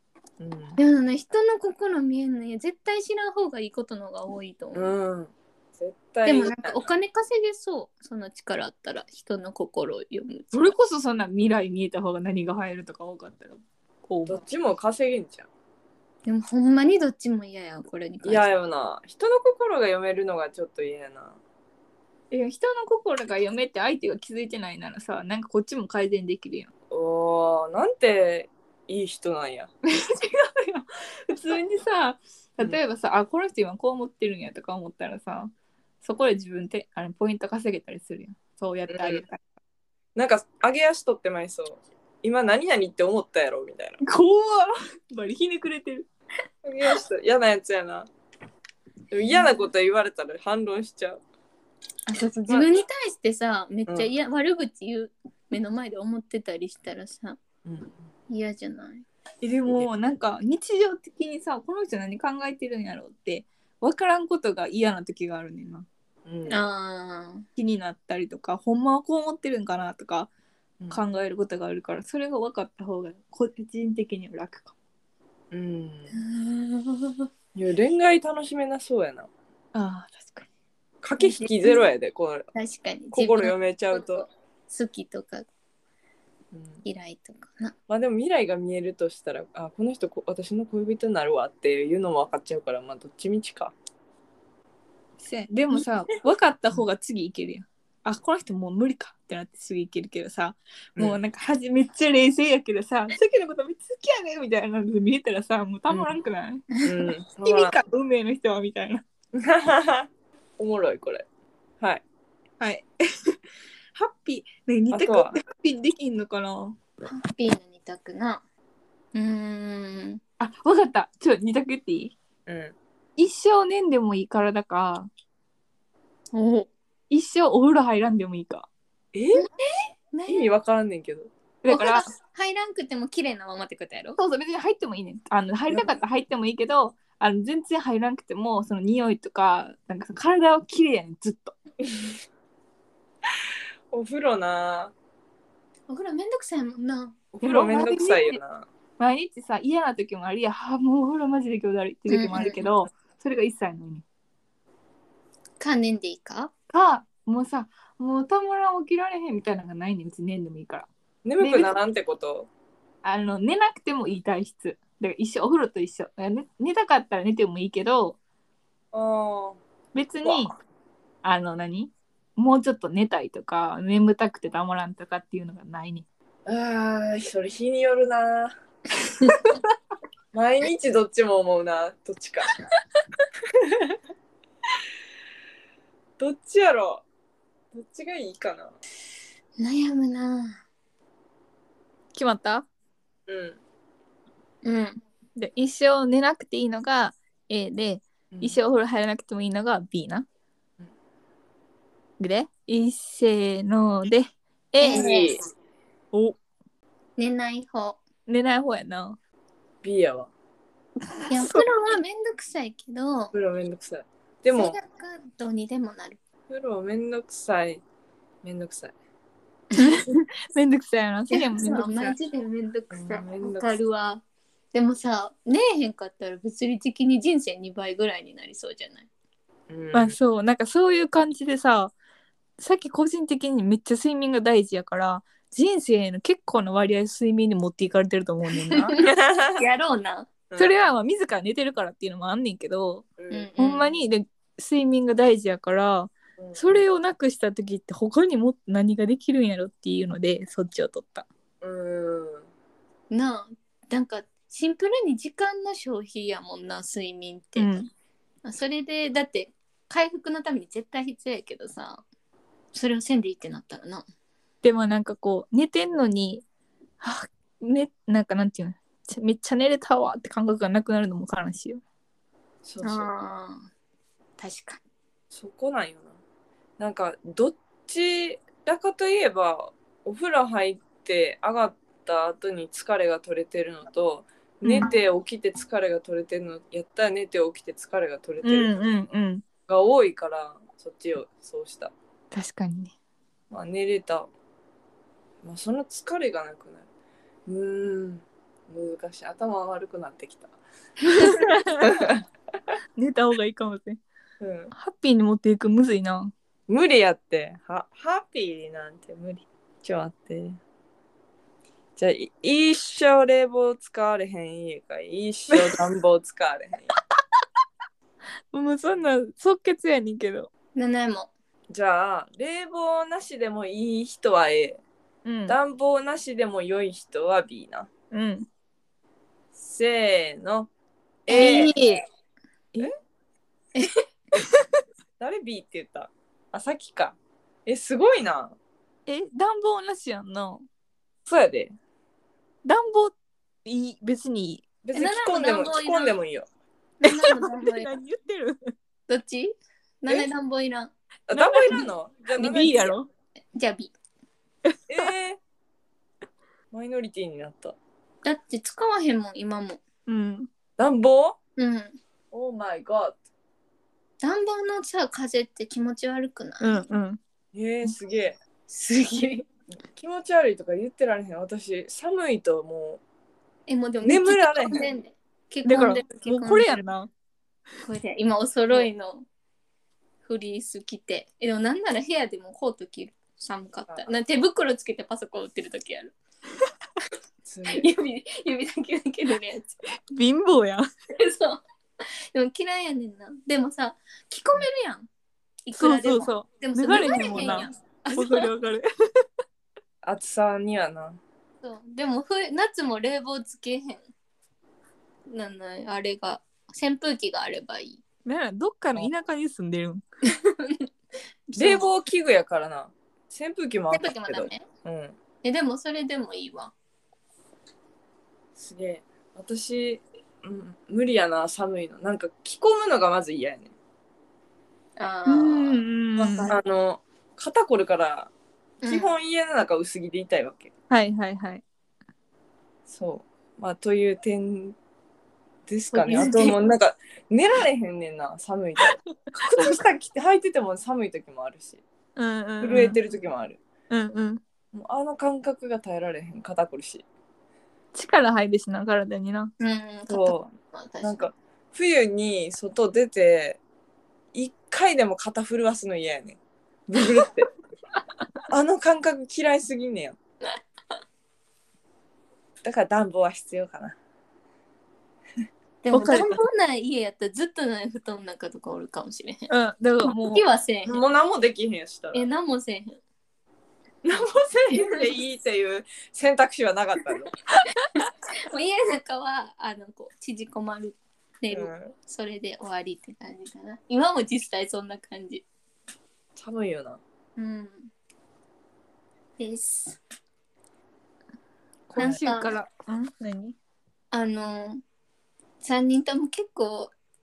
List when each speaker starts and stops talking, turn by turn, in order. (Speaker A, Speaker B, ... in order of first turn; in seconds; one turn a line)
Speaker A: 0.4-0.8
Speaker B: 0.8-4.9
Speaker A: 4.7-6.9
Speaker B: 6.2-10.7
Speaker C: 10.5-14.4
Speaker A: 14.3-15.5
Speaker B: 16.2-18.5
Speaker A: 18.2-21.4
Speaker C: 22.3-26.7
Speaker A: 26.9-29.7
Speaker C: 29.9-35.5
Speaker C: 36.0-39.4
Speaker A: 38.9-39.2
Speaker A: 40.1-44.0
Speaker C: 44.0-46.0
Speaker A: 46.6-48.1
Speaker A: 49.1-51.2
Speaker B: 52.1-57.4
Speaker A: 57.6-57.9
Speaker B: 58.3-59.0
Speaker C: 59.4-65.9
Speaker A: 66.2-66.6
Speaker B: 66.5-67.5
Speaker C: 67.6-70.3
Speaker C: 70.9-74.7
Speaker A: 75.5-76.1
Speaker B: 76.1-77.3
Speaker A: 77.5-79.3
Speaker C: 79.7-80.5
Speaker A: 81.0-82.5
Speaker B: 81.2-81.8
Speaker B: 82.5-85.5
Speaker A: 83.1-84.2
Speaker A: 86.5-86.8
Speaker B: 86.8-87.7
Speaker A: 87.9-93.7
Speaker C: 95.2-106.7
Speaker A: 106.8-107.8
Speaker C: 107.4-109.0
Speaker A: 109.3-111.2
Speaker C: 112.6-113.4
Speaker C: 113.9-116.8
Speaker A: 114.9-115.4
Speaker B: 117.0-118.4
Speaker B: 119.1-120.2
Speaker C: 120.4-122.1
Speaker A: 122.5-122.7
Speaker C: 123.2-125.1
Speaker B: 126.3-126.7
Speaker C: 127.1-128.7
Speaker A: 129.1-129.4
Speaker B: 129.4-130.5
Speaker A: 130.3-131.3
Speaker C: 131.6-132.1
Speaker B: 131.7-134.2
Speaker C: 134.2-141.5
Speaker A: 143.9-144.9
Speaker B: 145.9-147.2
Speaker A: 147.3-148.7
Speaker C: 147.4-148.4
Speaker C: 149.0-154.0
Speaker B: 152.1-152.6
Speaker B: 155.6-156.5
Speaker C: 156.7-160.9
Speaker A: 161.2-162.5
Speaker C: 161.4-161.7
Speaker C: 163.0-168.2
Speaker A: 168.9-169.6
Speaker C: 169.9-170.5
Speaker A: 170.2-170.5
Speaker C: 171.2-176.1
Speaker A: 176.4-178.5
Speaker A: 180.3-182.5
Speaker A: 183.6-184.0
Speaker A: 186.2-187.0
Speaker A: 187.7-188.7
Speaker B: 189.6-190.6
Speaker C: 192.1-192.7
Speaker A: 193.3-193.6
Speaker B: 194.6-195.0
Speaker C: 195.3-200.2
Speaker A: 198.3-198.6
Speaker C: 202.2-205.1
Speaker B: 204.8-205.4
Speaker A: 204.9-205.4
Speaker C: 206.1-206.4
Speaker B: 207.2-208.0
Speaker C: 208.3-209.2
Speaker A: 209.8-210.3
Speaker C: 211.2-211.6
Speaker B: 211.3-213.3
Speaker A: 213.3-214.8
Speaker B: 214.5-216.2
Speaker A: 216.5-217.8
Speaker A: 218.4-218.9
Speaker B: 219.7-220.0
Speaker C: 219.8-222.1
Speaker B: 221.3-229.1
Speaker A: 222.9-223.8
Speaker A: 229.7-230.2
Speaker C: 229.9-231.9
Speaker C: 232.6-238.9
Speaker B: 238.7-239.0
Speaker A: 239.0-239.6
Speaker B: 239.6-240.3
Speaker A: 240.5-240.7
Speaker C: 240.6-243.1
Speaker A: 243.2-243.5
Speaker B: 243.3-243.9
Speaker C: 243.6-251.3
Speaker A: 246.4-246.8
Speaker A: 251.6-252.5
Speaker B: 253.1-257.7
Speaker C: 257.6-257.9
Speaker B: 258.4-262.0
Speaker B: 262.7-264.0
Speaker C: 264.6-266.4
Speaker C: 267.0-271.8
Speaker A: 272.6-273.1
Speaker B: 272.8-273.7
Speaker B: 274.4-274.8
Speaker A: 275.3-276.1
Speaker A: 276.8-288.7
Speaker C: 284.6-284.9
Speaker C: 288.4-289.4
Speaker A: 289.7-291.9
Speaker C: 292.3-292.9
Speaker A: 293.5-294.3
Speaker A: 295.4-296.8
Speaker A: 297.5-300.5
Speaker A: 301.1-302.2
Speaker C: 301.3-301.9
Speaker C: 303.0-304.0
Speaker A: 304.4-304.7
Speaker C: 304.7-306.3
Speaker A: 306.7-310.6
Speaker A: 312.0-316.9
Speaker C: 318.5-320.5
Speaker B: 320.7-321.3
Speaker A: 321.7-324.8
Speaker C: 325.2-325.6
Speaker A: 325.5-327.9
Speaker C: 328.1-328.5
Speaker A: 329.6-330.7
Speaker A: 331.2-331.7
Speaker B: 331.3-332.0
Speaker C: 331.3-332.0
Speaker B: 333.7-334.0
Speaker A: 335.2-338.6
Speaker C: 339.1-340.6
Speaker A: 341.2-341.7
Speaker C: 342.6-343.1
Speaker C: 343.6-344.6
Speaker A: 344.8-346.5
Speaker B: 344.9-346.1
Speaker B: 347.0-347.9
Speaker C: 347.0-348.7
Speaker B: 349.1-350.9
Speaker A: 351.3-352.9
Speaker C: 351.3-353.1
Speaker B: 352.4-352.9
Speaker B: 353.6-353.9
Speaker A: 354.9-355.4
Speaker A: 356.7-357.8
Speaker B: 358.2-359.8
Speaker C: 360.1-360.5
Speaker A: 360.8-361.4
Speaker B: 361.6-361.9
Speaker A: 362.3-363.2
Speaker B: 364.2-366.9
Speaker C: 366.6-367.2
Speaker A: 367.5-368.4
Speaker B: 368.7-369.5
Speaker A: 369.9-373.0
Speaker B: 373.7-376.8
Speaker A: 374.0-374.9
Speaker C: 375.6-377.1
Speaker B: 377.8-379.2
Speaker B: 380.2-386.1
Speaker A: 387.4-387.9
Speaker B: 387.6-389.8
Speaker C: 390.1-390.9
Speaker B: 391.2-395.1
Speaker B: 395.6-398.5
Speaker C: 395.8-399.2
Speaker A: 400.0-401.2
Speaker B: 401.6-404.0
Speaker B: 405.3-408.0
Speaker C: 408.2-410.0
Speaker B: 410.3-410.9
Speaker B: 411.5-411.9
Speaker A: 411.5-415.1
Speaker B: 413.9-414.6
Speaker B: 415.4-416.7
Speaker A: 418.6-423.7
Speaker B: 425.0-426.5
Speaker C: 425.3-426.5
Speaker A: 426.4-428.3
Speaker B: 428.8-429.1
Speaker A: 428.9-430.7
Speaker C: 430.9-431.6
Speaker A: 432.9-434.8
Speaker A: 435.7-441.8
Speaker B: 435.9-436.6
Speaker C: 439.5-439.7
Speaker C: 442.1-443.0
Speaker A: 442.6-443.6
Speaker C: 443.9-444.4
Speaker A: 444.7-447.0
Speaker C: 447.9-449.5
Speaker B: 449.6-451.3
Speaker A: 450.1-450.5
Speaker A: 451.0-453.6
Speaker A: 454.3-457.5
Speaker A: 458.5-460.2
Speaker A: 462.6-464.0
Speaker B: 465.8-469.5
Speaker C: 465.9-466.4
Speaker C: 469.5-470.4
Speaker B: 470.0-471.0
Speaker A: 470.9-472.2
Speaker B: 472.1-473.0
Speaker A: 474.0-477.3
Speaker B: 474.7-475.0
Speaker B: 477.8-485.4
Speaker A: 481.5-481.9
Speaker A: 486.4-487.0
Speaker B: 487.4-487.9
Speaker B: 489.4-490.0
Speaker C: 491.9-493.6
Speaker A: 491.9-492.2
Speaker B: 492.0-492.5
Speaker B: 494.1-494.8
Speaker B: 495.6-496.9